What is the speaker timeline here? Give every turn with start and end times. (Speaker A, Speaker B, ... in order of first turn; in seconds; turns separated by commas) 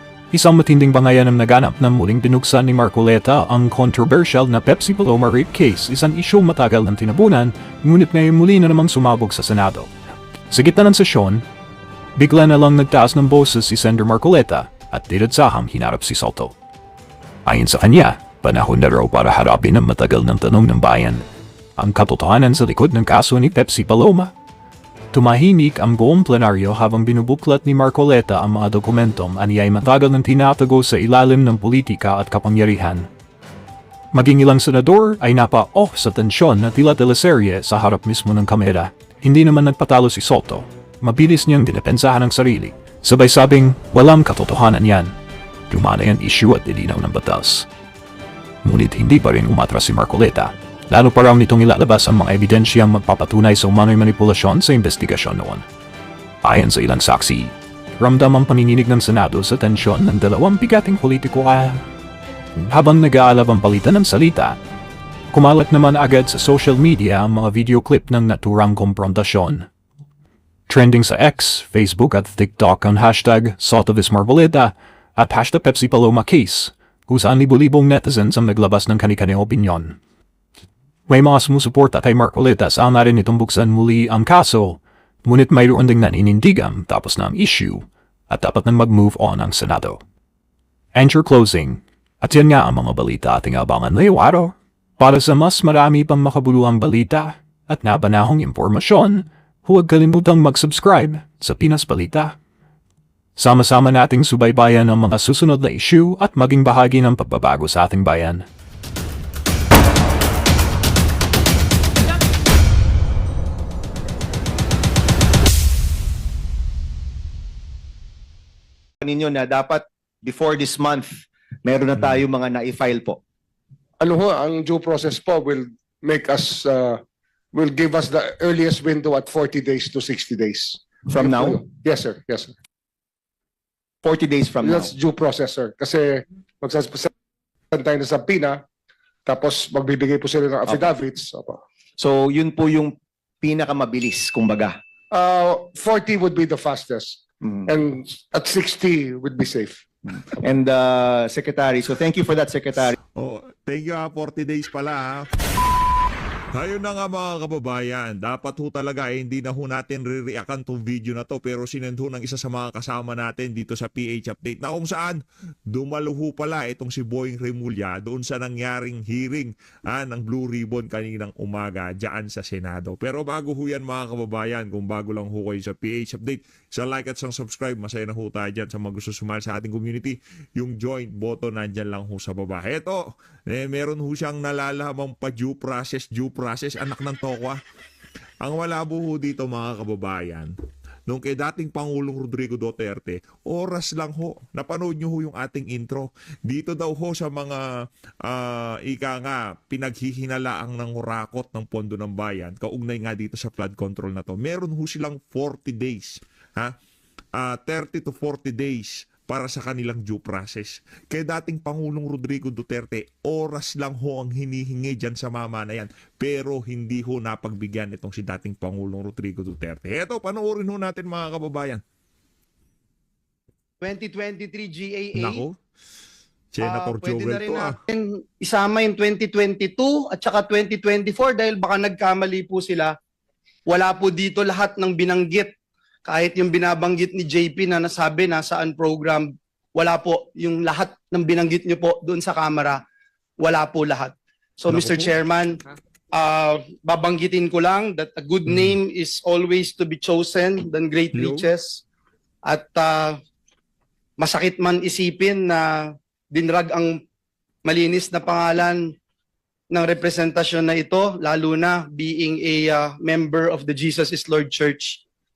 Speaker A: 0.3-9.9, Speaker A: 10.5-11.4, Speaker A: 12.2-16.5, Speaker A: 17.4-21.2, Speaker A: 21.8-24.3, Speaker A: 25.1-33.1, Speaker A: 34.1-45.1, Speaker A: 45.7-47.7, Speaker A: 48.6-55.6, Speaker A: 56.4-61.8, Speaker A: 62.5-64.6, Speaker A: 65.3-69.7, Speaker A: 70.7-80.0, Speaker A: 81.1-90.0, Speaker A: 90.9-102.3, Speaker A: 103.4-108.5, Speaker B: 119.0-123.2, Speaker C: 124.0-127.0, Speaker C: 127.5-132.5, Speaker B: 131.1-131.6, Speaker B: 134.0-134.9, Speaker C: 134.6-137.1, Speaker C: 137.7-138.6, Speaker C: 139.2-141.6, Speaker B: 140.7-140.9, Speaker B: 142.0-144.8, Speaker C: 145.1-149.8, Speaker B: 150.4-152.9, Speaker D: 153.2-155.2, Speaker D: 156.5-187.6, Speaker D: 188.4-190.5, Speaker D: 191.1-197.7, Speaker D: 198.2-206.8, Speaker D: 207.3-221.8, Speaker E: 223.8-225.4, Speaker D: 225.1-225.6, Speaker D: 226.5-227.8, Speaker E: 226.6-232.9, Speaker E: 233.7-235.5, Speaker E: 236.1-242.8, Speaker E: 243.4-245.6, Speaker D: 244.7-245.1, Speaker E: 246.1-251.8, Speaker D: 248.5-248.8, Speaker D: 251.1-251.4, Speaker E: 252.5-253.2, Speaker E: 254.2-257.0, Speaker E: 257.6-258.9, Speaker E: 259.7-265.0